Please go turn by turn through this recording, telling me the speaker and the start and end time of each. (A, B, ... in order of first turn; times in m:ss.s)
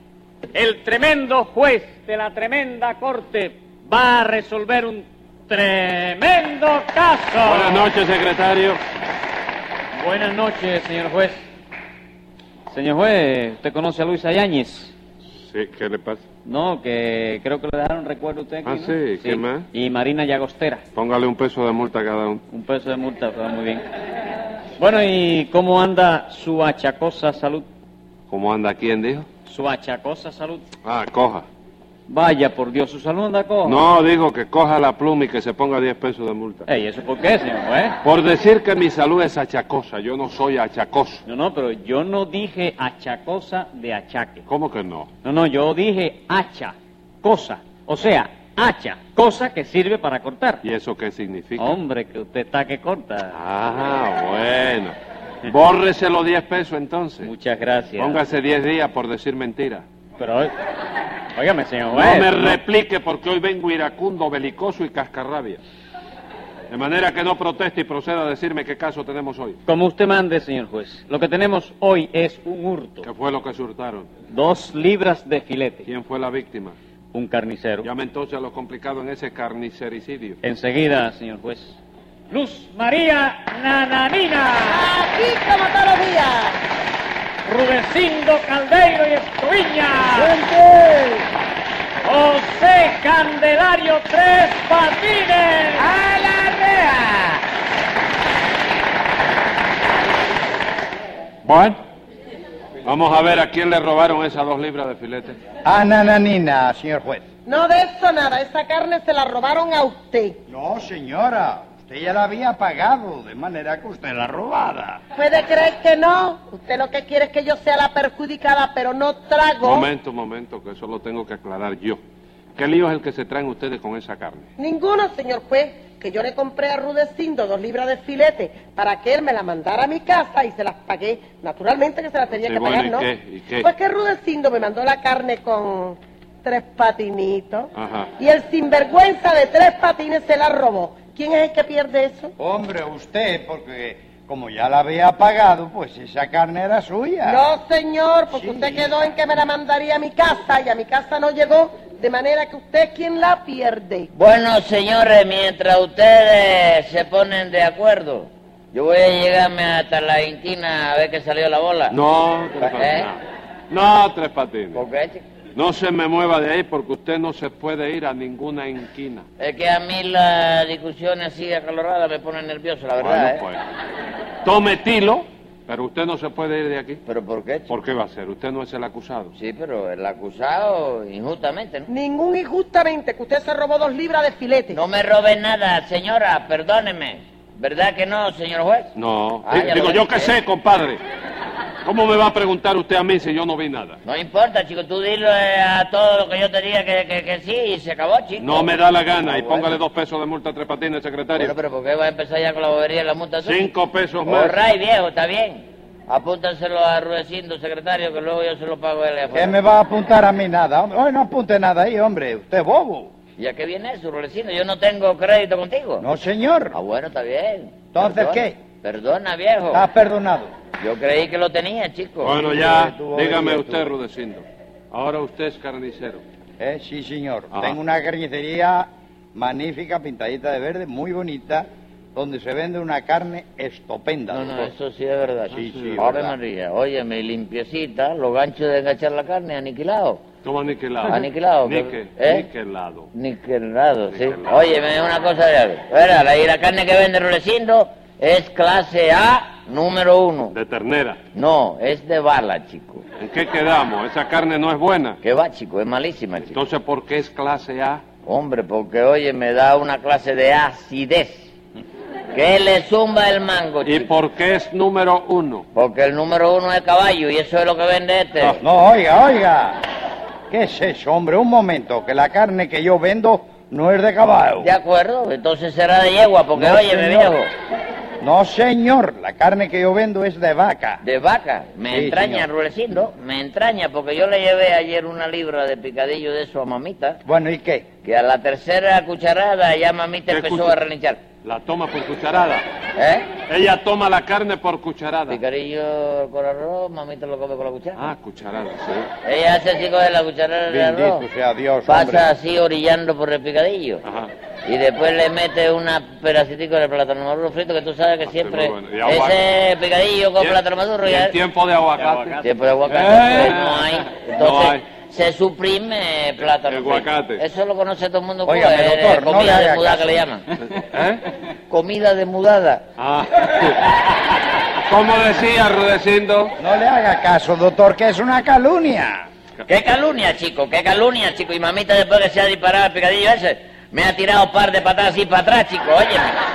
0:00.5-0:07.9 A
0:07.4-0:08.8 B
0:10.0-0:11.4 A
0:12.7-0:14.9 A
0:15.5-0:16.2 B
0:16.4-0:20.8 A
0:18.6-0:19.7 B
0:20.9-0:22.4 B
0:22.5-0:23.8 A
0:24.8-0:27.7 A
0:28.3-0:29.3 B
0:29.4-0:30.6 A
0:30.8-0:31.4 B
0:32.1-0:33.8 A
0:33.6-0:36.7 B
0:36.7-0:38.0 A
0:38.0-0:41.2 B
0:41.2-0:44.4 A
0:44.5-0:45.1 B
0:45.2-0:50.6 A
0:50.6-0:51.7 B
0:51.6-0:53.4 A
0:53.3-0:57.3 B
0:57.2-0:58.2 A
0:58.0-0:59.8 B
1:00.2-1:00.5 A
1:01.3-1:02.6 A
1:01.9-1:05.6 B
1:06.7-1:09.6 B
1:09.6-1:13.1 A
1:13.0-1:14.1 B
1:14.3-1:15.9 A
1:15.9-1:16.8 B
1:17.1-1:17.9 A
1:17.8-1:20.4 B
1:20.4-1:21.8 A
1:22.3-1:24.9 A
1:24.7-1:26.6 C
1:27.4-1:30.4 A
1:30.2-1:31.2 D
1:32.0-1:35.9 A
1:35.8-1:37.4 D
1:41.4-1:41.8 B
1:42.8-1:45.4 B
1:45.6-1:47.2 E
1:47.4-1:50.4 C
1:50.5-1:55.0 E
1:55.2-1:59.9 C
1:59.6-2:02.0 B
2:02.6-2:04.5 B
2:04.6-2:13.1 C
2:12.3-2:13.7 B
2:13.6-2:22.3 C
2:17.7-2:18.1 B
2:22.4-2:27.4 E
2:27.2-2:34.1 C
2:28.3-2:28.9 E
2:34.1-2:42.0 D
2:41.9-2:44.8 B
2:42.7-2:43.1 D
2:44.7-2:45.2 D
2:45.5-2:49.2 B
2:49.4-2:53.4 D
2:53.0-2:53.6 B
2:54.4-2:57.0 B
2:57.0-2:57.7 D
2:57.7-2:59.3 B
2:59.3-3:01.9 D
3:01.9-3:04.8 C
3:04.7-3:08.9 D
3:08.9-3:11.0 B
3:09.4-3:10.3 D
3:11.8-3:14.0 B
3:14.0-3:18.7 D
3:18.4-3:21.6 B
3:19.2-3:19.8 D
3:21.4-3:23.7 D
3:23.4-3:24.6 B
3:24.2-3:29.6 D
3:29.3-3:33.1 E
3:33.4-3:36.0 D
3:36.0-3:36.8 E
3:36.7-3:39.9 D
3:37.9-3:38.6 E
3:39.7-3:40.5 E
3:40.8-3:42.4 D
3:42.2-3:46.2 B
3:42.4-3:43.9 E
3:46.6-3:54.7 E
3:47.5-3:47.8 B
3:54.3-4:00.2 D
3:55.5-3:56.3 E
3:55.5-3:56.2 B
4:00.4-4:03.1 B
4:01.1-4:02.5 D
4:03.1-4:10.5 D
4:04.1-4:04.8 B
4:10.5-4:11.2 B
4:11.3-4:13.0 D
4:13.2-4:15.2 B
4:15.2-4:16.6 D
4:16.5-4:18.0 B
4:18.2-4:21.5 D
4:22.3-4:24.1 D
4:23.8-4:25.6 B
4:25.7-4:28.6 D
4:28.6-4:29.8 E
4:30.5-4:34.7 E
4:34.6-4:37.5 D
4:36.5-4:37.3 E
4:38.2-4:41.0 E
4:41.0-4:47.2 D
4:41.9-4:42.5 E
4:47.2-4:47.8 E
4:48.0-4:51.2 D
4:50.3-4:50.8 B
4:51.4-4:52.6 B
4:53.0-4:53.3 D
4:53.5-4:55.4 B
4:55.3-4:58.1 D
4:58.0-4:59.1 B
4:59.2-5:01.2 D
5:00.7-5:02.3 E
5:01.9-5:04.0 D
5:04.0-5:04.3 B
5:04.6-5:11.4 D
5:08.2-5:09.4 B
5:10.4-5:14.8 B
5:12.0-5:12.4 A
5:12.4-5:20.4 D
5:16.4-5:17.4 B
5:18.4-5:20.2 E
5:20.7-5:21.2 B
5:21.7-5:22.8 D
5:23.0-5:24.1 B
5:24.8-5:26.5 B
5:26.6-5:29.3 E
5:29.6-5:36.4 D